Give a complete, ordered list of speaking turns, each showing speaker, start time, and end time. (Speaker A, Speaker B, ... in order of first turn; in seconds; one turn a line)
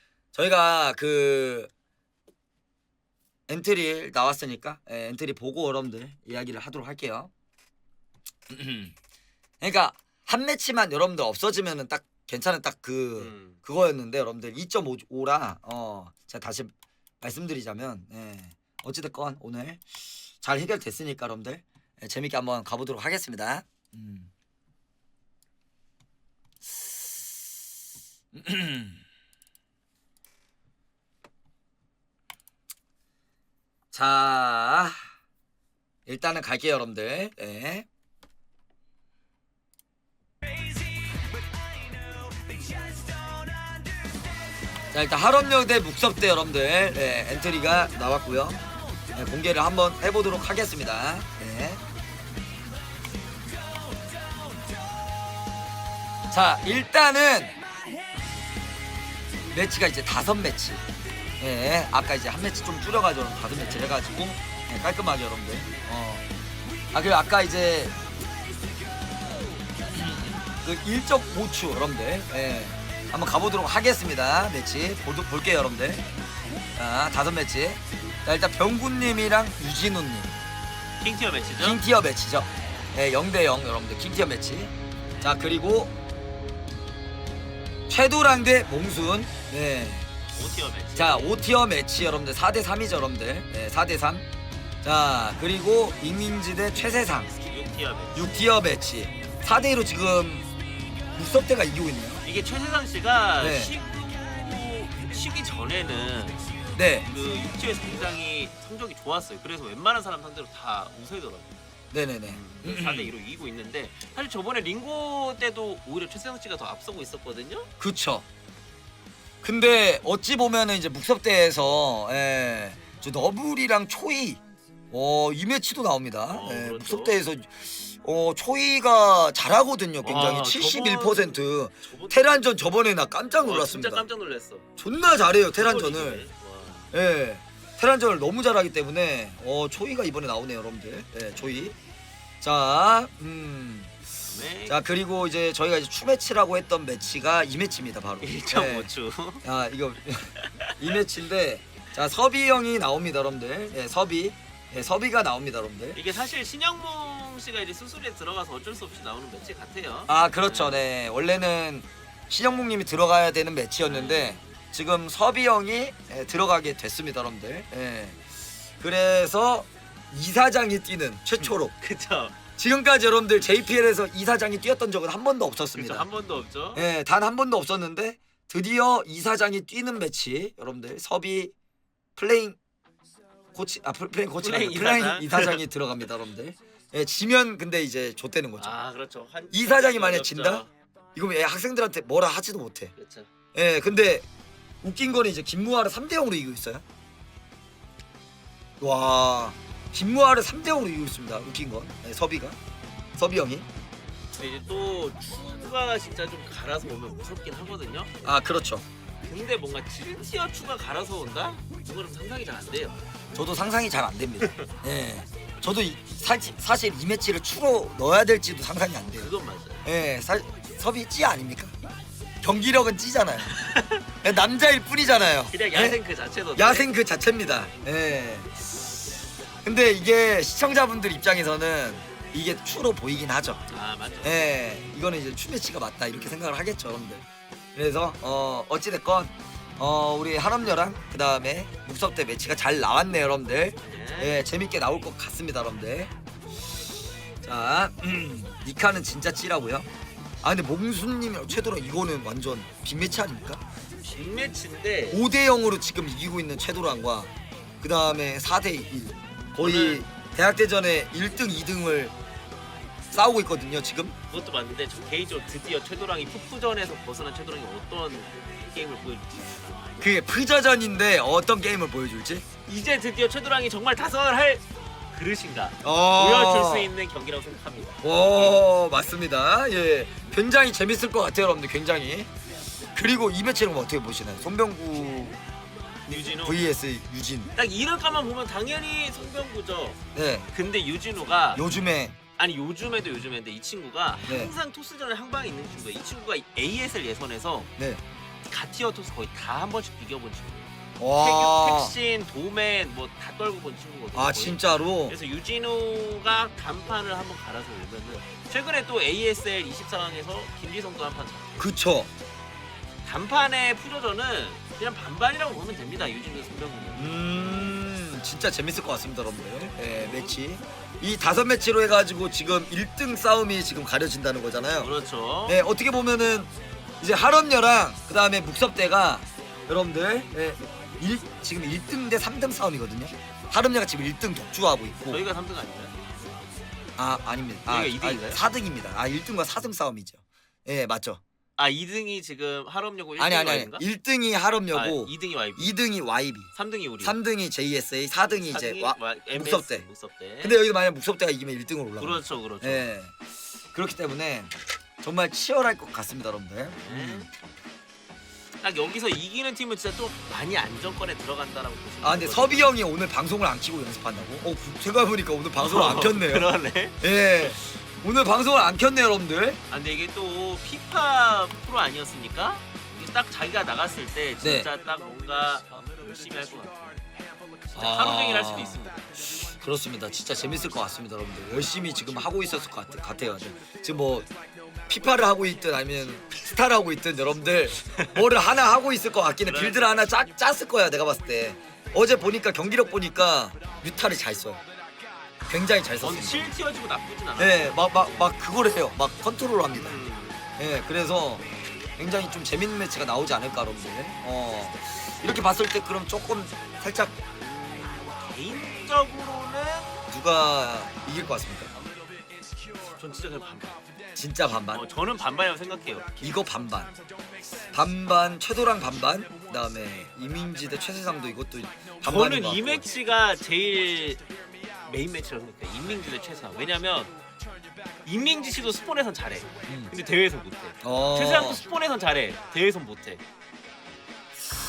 Speaker A: 0.3-1.7
Speaker A: 3.5-7.3
Speaker A: 8.5-8.9
Speaker A: 9.6-19.8
Speaker B: 13.2-13.6
Speaker A: 20.4-24.3
Speaker A: 28.3-29.0
Speaker A: 33.9-35.0
Speaker A: 36.1-37.9
Speaker A: 44.9-48.6
Speaker A: 49.1-51.8
Speaker A: 56.3-57.5
Speaker A: 59.5-60.8
Speaker A: 61.4-66.2
Speaker A: 66.9-67.9
Speaker A: 69.9-76.0
Speaker A: 76.8-80.3
Speaker B: 81.0-81.8
Speaker A: 81.6-85.9
Speaker A: 87.9-90.1
Speaker B: 90.3-91.3
Speaker A: 91.0-94.2
Speaker A: 94.8-97.3
Speaker B: 97.5-98.4
Speaker A: 98.1-100.5
Speaker A: 101.1-102.2
Speaker B: 102.2-106.4
Speaker A: 103.4-103.7
Speaker A: 106.7-107.1
Speaker B: 107.1-111.5
Speaker A: 111.9-113.1
Speaker B: 112.3-117.7
Speaker A: 117.8-118.2
Speaker A: 119.4-124.4
Speaker A: 124.9-134.1
Speaker B: 126.3-127.2
Speaker B: 130.0-132.6
Speaker B: 133.4-134.7
Speaker A: 134.8-136.2
Speaker B: 135.5-136.9
Speaker A: 136.9-141.8
Speaker A: 142.4-143.9
Speaker B: 144.3-144.8
Speaker A: 144.7-148.9
Speaker B: 148.2-149.4
Speaker A: 149.4-156.0
Speaker B: 150.4-150.9
Speaker B: 155.9-160.8
Speaker A: 160.1-168.2
Speaker B: 163.8-164.4
Speaker A: 168.8-171.7
Speaker B: 171.4-172.4
Speaker A: 172.6-176.1
Speaker B: 175.7-176.8
Speaker A: 176.7-181.5
Speaker A: 182.2-182.6
Speaker A: 183.5-188.8
Speaker B: 184.4-185.6
Speaker B: 188.6-190.7
Speaker A: 189.5-192.9
Speaker B: 192.9-193.3
Speaker A: 193.5-194.2
Speaker A: 194.8-196.8
Speaker A: 198.8-202.6
Speaker A: 203.2-203.7
Speaker B: 204.3-208.1
Speaker A: 208.2-208.8
Speaker B: 209.2-213.0
Speaker A: 213.3-219.3
Speaker B: 214.4-214.7
Speaker B: 219.1-219.8
Speaker A: 219.8-221.7
Speaker A: 222.4-223.6
Speaker B: 223.4-224.0
Speaker A: 224.2-226.0
Speaker B: 225.5-226.9
Speaker A: 226.6-228.5
Speaker A: 229.6-233.6
Speaker B: 233.7-234.5
Speaker A: 234.2-246.1
Speaker B: 243.8-244.4
Speaker A: 247.4-249.9
Speaker A: 250.4-253.6
Speaker B: 254.0-255.2
Speaker A: 255.1-262.1
Speaker B: 259.6-260.0
Speaker A: 263.1-264.1
Speaker B: 264.3-269.9
Speaker A: 270.0-272.4
Speaker B: 272.7-278.6
Speaker A: 275.8-276.9
Speaker A: 278.0-282.3
Speaker A: 282.9-285.4
Speaker B: 286.1-286.6
Speaker A: 286.1-287.5
Speaker B: 287.6-290.0
Speaker A: 290.1-290.5
Speaker B: 290.5-291.7
Speaker A: 291.5-292.2
Speaker B: 292.4-297.7
Speaker A: 294.3-294.5
Speaker A: 297.8-298.0
Speaker B: 298.5-311.6
Speaker A: 301.0-301.9
Speaker A: 304.1-305.2
Speaker A: 311.6-312.1
Speaker B: 313.0-317.8
Speaker A: 316.9-324.9
Speaker B: 319.9-320.4
Speaker B: 324.8-325.6
Speaker A: 325.5-326.5
Speaker A: 327.0-335.2
Speaker B: 335.1-336.1
Speaker A: 337.0-341.2
Speaker B: 337.7-338.4
Speaker B: 341.6-343.8
Speaker A: 343.2-349.9
Speaker B: 344.7-345.7
Speaker B: 346.5-347.1
Speaker B: 348.3-350.6
Speaker A: 350.4-353.1
Speaker B: 352.0-352.9
Speaker A: 353.7-357.3
Speaker B: 356.7-357.3
Speaker B: 358.6-362.7
Speaker A: 362.0-366.5
Speaker B: 365.6-367.0
Speaker A: 367.0-369.6
Speaker B: 369.7-377.0
Speaker A: 374.4-374.7
Speaker B: 377.7-379.3
Speaker A: 377.7-384.3
Speaker A: 384.9-394.6
Speaker B: 387.9-388.2
Speaker B: 389.4-390.1
Speaker A: 395.4-396.5
Speaker B: 396.0-398.4
Speaker A: 397.4-400.0
Speaker B: 399.7-400.4
Speaker A: 400.6-401.4
Speaker A: 402.0-407.1
Speaker B: 407.4-410.0
Speaker A: 410.1-411.7
Speaker B: 412.9-413.8
Speaker A: 414.1-414.8
Speaker B: 414.6-416.2
Speaker A: 416.2-416.9
Speaker A: 417.7-422.9
Speaker B: 422.0-424.3
Speaker B: 424.8-427.1
Speaker B: 428.0-433.2
Speaker A: 429.6-429.9
Speaker A: 430.8-431.6